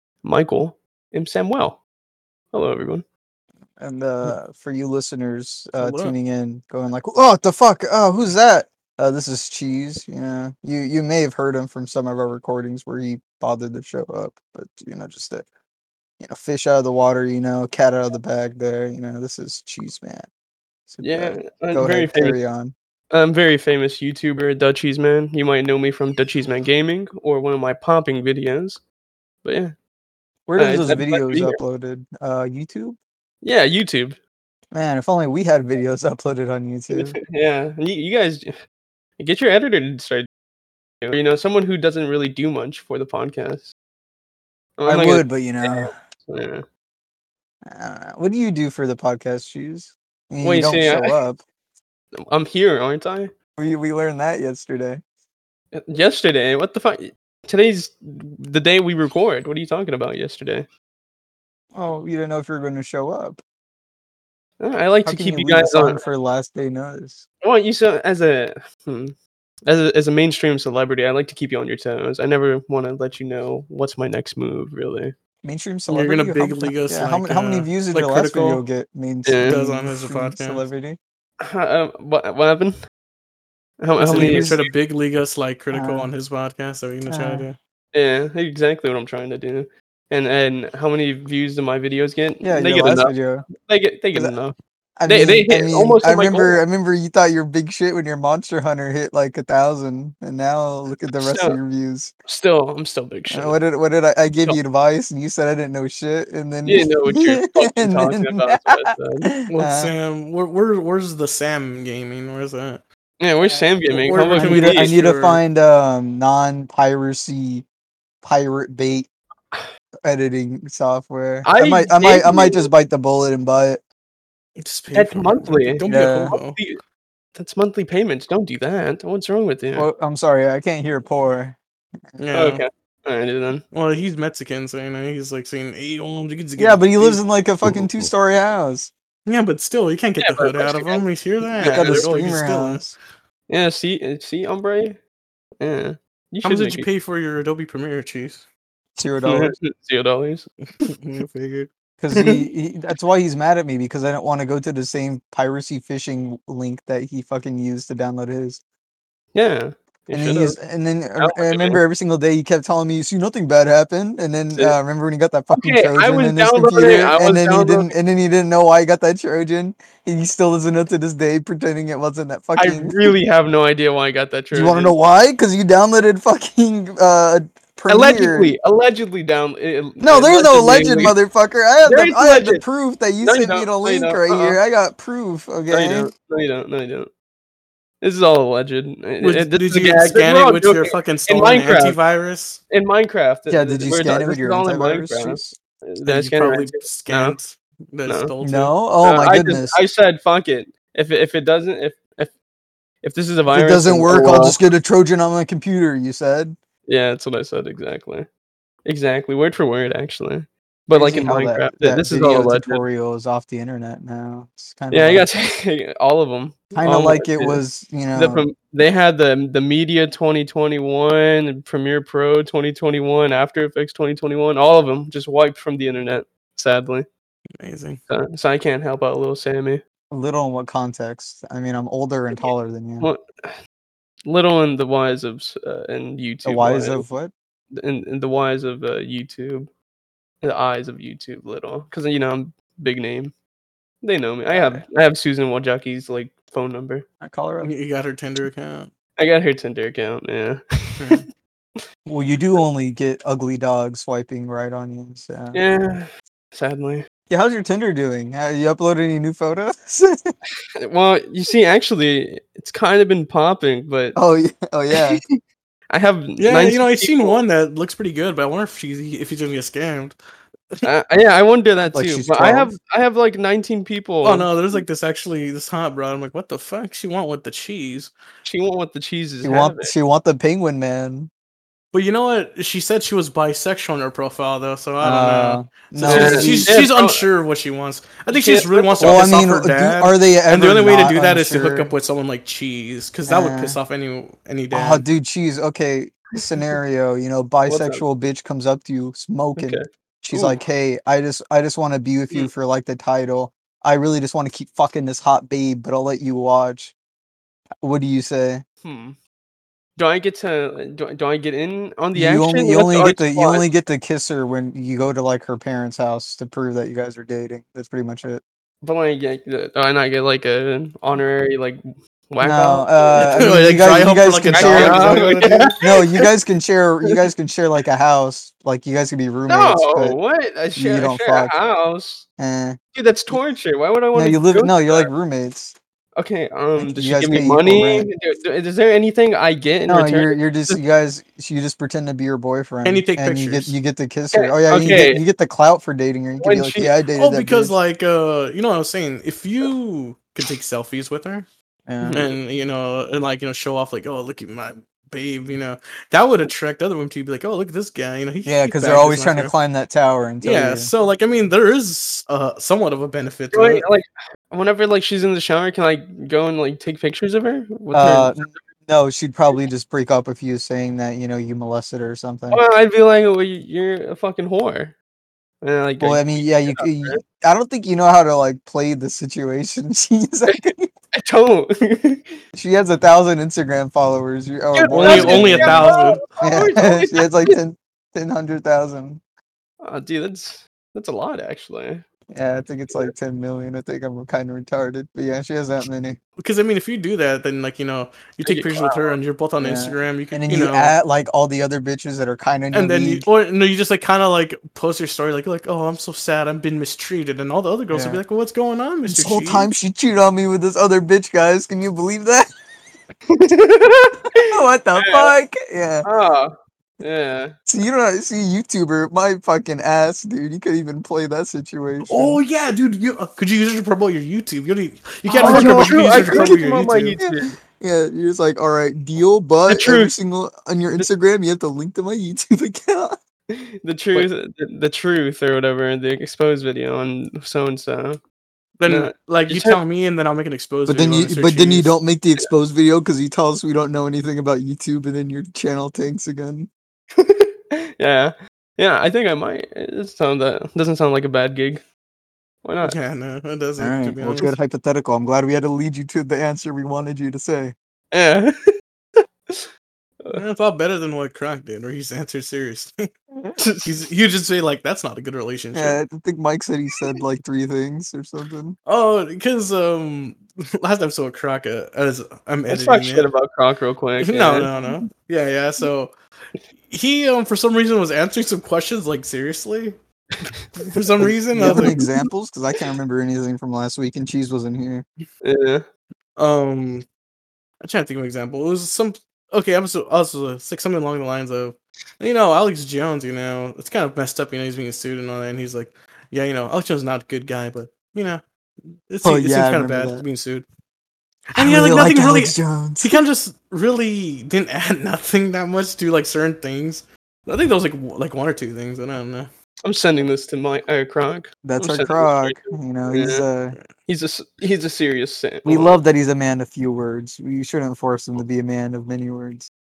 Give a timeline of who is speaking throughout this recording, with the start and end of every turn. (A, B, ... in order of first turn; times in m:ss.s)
0:00.2-0:01.8 A
0:02.5-0:03.0 A
0:03.8-0:15.5 B
0:05.8-0:06.2 C
0:16.2-0:20.3 B
0:20.9-0:22.7 B
0:21.0-0:22.4 A
0:23.1-0:28.8 A
0:29.4-0:29.8 A
0:30.5-0:33.0 B
0:30.6-0:31.6 A
0:33.4-0:34.2 A
0:34.7-0:37.2 B
0:36.9-0:38.5 A
0:39.2-0:40.3 A
0:41.0-0:43.7 A
0:44.8-0:46.6 A
0:44.9-0:45.9 B
0:47.7-0:51.4 B
0:50.4-0:51.1 A
0:52.2-0:53.3 A
0:53.6-0:55.0 B
0:55.7-1:00.7 A
1:01.7-1:03.4 B
1:04.6-1:06.0 A
1:05.1-1:07.2 B
1:07.4-1:09.2 A
1:09.7-1:15.2 A
1:15.4-1:21.0 B
1:15.9-1:18.6 C
1:19.3-1:19.6 A
1:19.4-1:20.6 C
1:21.4-1:22.8 A
1:23.8-1:24.6 A
1:24.0-1:27.6 C
1:24.1-1:24.6 B
1:25.7-1:26.1 B
1:27.1-1:27.5 B
1:27.9-1:34.6 A
1:32.4-1:33.5 B
1:35.0-1:42.1 B
1:35.1-1:36.6 A
1:41.1-1:41.6 A
1:42.3-1:43.6 A
1:43.3-1:49.9 B
1:46.6-1:49.3 A
1:49.5-1:52.8 C
1:53.2-1:54.9 A
1:53.4-1:57.6 B
1:54.0-1:55.4 C
1:58.2-1:59.1 B
2:00.0-2:03.8 B
2:01.4-2:02.7 A
2:04.6-2:06.6 C
2:04.9-2:06.8 A
2:05.9-2:06.3 B
2:07.4-2:09.9 A
2:09.8-2:11.6 B
2:12.2-2:12.6 C
2:12.3-2:13.6 A
2:13.7-2:17.2 C
2:16.6-2:18.9 B
2:19.3-2:23.0 C
2:20.2-2:22.1 A
2:21.6-2:22.9 B
2:23.5-2:25.0 A
2:25.6-2:26.9 A
2:26.4-2:28.5 C
2:29.0-2:29.5 B
2:29.2-2:30.5 A
2:30.7-2:31.7 C
2:32.0-2:38.6 B
2:32.1-2:32.4 A
2:39.3-2:40.6 A
2:40.1-2:53.1 B
2:41.2-2:41.8 A
2:45.5-2:47.9 A
2:52.6-2:55.0 A
2:54.5-2:58.6 B
2:57.9-3:01.2 A
3:00.0-3:06.1 B
3:01.8-3:02.7 A
3:03.2-3:04.6 A
3:05.7-3:07.1 A
3:08.0-3:12.0 A
3:09.2-3:12.6 C
3:12.7-3:17.4 A
3:13.5-3:15.6 B
3:16.0-3:18.8 C
3:18.1-3:18.3 A
3:18.4-3:19.8 B
3:19.0-3:22.3 A
3:23.0-3:24.6 A
3:23.5-3:26.6 B
3:26.9-3:28.3 A
3:28.8-3:32.8 A
3:30.9-3:35.3 B
3:34.9-3:37.6 A
3:36.8-3:38.5 B
3:38.1-3:47.1 A
3:47.6-3:48.0 C
3:48.1-3:49.8 A
3:50.1-3:53.1 B
3:53.0-3:53.6 A
3:54.2-3:57.0 A
3:56.4-3:57.3 B
3:57.7-3:59.7 A
4:00.4-4:03.3 A
4:04.0-4:07.1 A
4:04.5-4:04.8 B
4:07.2-4:07.7 B
4:07.6-4:08.9 C
4:09.2-4:11.2 A
4:11.0-4:11.3 C
4:12.1-4:15.6 B
4:15.5-4:17.0 A
4:17.3-4:20.3 B
4:20.8-4:24.2 A
4:24.2-4:25.2 B
4:25.9-4:27.4 A
4:26.4-4:30.2 C
4:30.8-4:34.8 A
4:31.9-4:32.7 B
4:34.2-4:38.1 C
4:38.4-4:40.0 A
4:39.4-4:41.3 B
4:41.9-4:55.0 C
4:45.0-4:46.7 B
4:46.1-4:47.2 A
4:48.3-4:49.3 A
4:49.0-4:51.9 B
4:53.3-4:53.8 B
4:54.7-5:06.9 B
4:57.7-4:58.0 A
4:59.6-5:00.6 A
5:07.8-5:08.6 B
5:08.8-5:09.2 A
5:10.0-5:13.7 A
5:12.1-5:18.4 B
5:18.8-5:23.5 A
5:22.4-5:30.2 B
5:23.2-5:25.8 C
5:24.5-5:26.2 A
5:29.5-5:32.2 A
5:30.8-5:31.6 B
5:32.4-5:32.8 B
5:32.9-5:35.1 A
5:34.1-5:35.8 B
5:36.2-5:40.8 A
5:36.8-5:38.1 B
5:39.9-5:47.8 B
5:42.8-5:43.8 C
5:44.3-5:45.2 A
5:46.4-5:47.0 A
5:47.2-5:51.5 C
5:51.9-5:52.3 B
5:52.0-5:52.3 A
5:52.1-5:59.5 C
5:58.4-6:00.9 B
6:00.4-6:03.9 C
6:03.5-6:08.4 A
6:07.9-6:12.6 B
6:12.5-6:15.0 A
6:15.6-6:17.2 A
6:16.0-6:20.9 B
6:20.5-6:22.3 A
6:22.6-6:25.9 B
6:24.7-6:27.6 A
6:24.9-6:26.2 C
6:26.4-6:29.2 B
6:29.8-6:32.0 A
6:32.3-6:36.2 B
6:36.4-6:40.9 C
6:38.5-6:39.1 A
6:39.6-6:43.3 B
6:42.7-6:49.7 C
6:47.9-6:48.2 B
6:49.1-6:52.5 B
6:53.3-6:55.3 A
6:54.5-6:56.1 B
6:56.0-6:57.5 A
6:57.7-7:02.4 B
7:02.1-7:07.2 C
7:05.3-7:07.6 A
7:05.4-7:06.6 B
7:07.2-7:13.2 B
7:09.7-7:10.1 A
7:13.5-7:18.2 A
7:18.8-7:22.0 C
7:18.9-7:19.8 A
7:20.9-7:26.7 B
7:27.2-7:31.8 A
7:32.6-7:33.0 A
7:32.8-7:34.6 C
7:33.8-7:37.8 B
7:38.1-7:38.5 A
7:40.3-7:43.0 C
7:43.3-7:43.6 B
7:43.6-7:44.0 A
7:43.8-7:46.0 C
7:45.7-7:48.8 B
7:48.9-7:53.3 C
7:52.7-7:54.7 A
7:54.2-7:56.1 C
7:56.7-8:00.0 C
8:00.5-8:01.0 A
8:00.9-8:02.0 C
8:01.2-8:05.0 B
8:01.7-8:02.1 A
8:05.4-8:05.8 A
8:06.4-8:07.0 C
8:07.8-8:18.4 C
8:19.1-8:20.7 C
8:19.2-8:20.2 B
8:21.5-8:29.5 C
8:21.6-8:23.2 B
8:29.8-8:33.5 A
8:31.6-8:33.8 B
8:34.1-8:36.0 A
8:35.6-8:39.7 B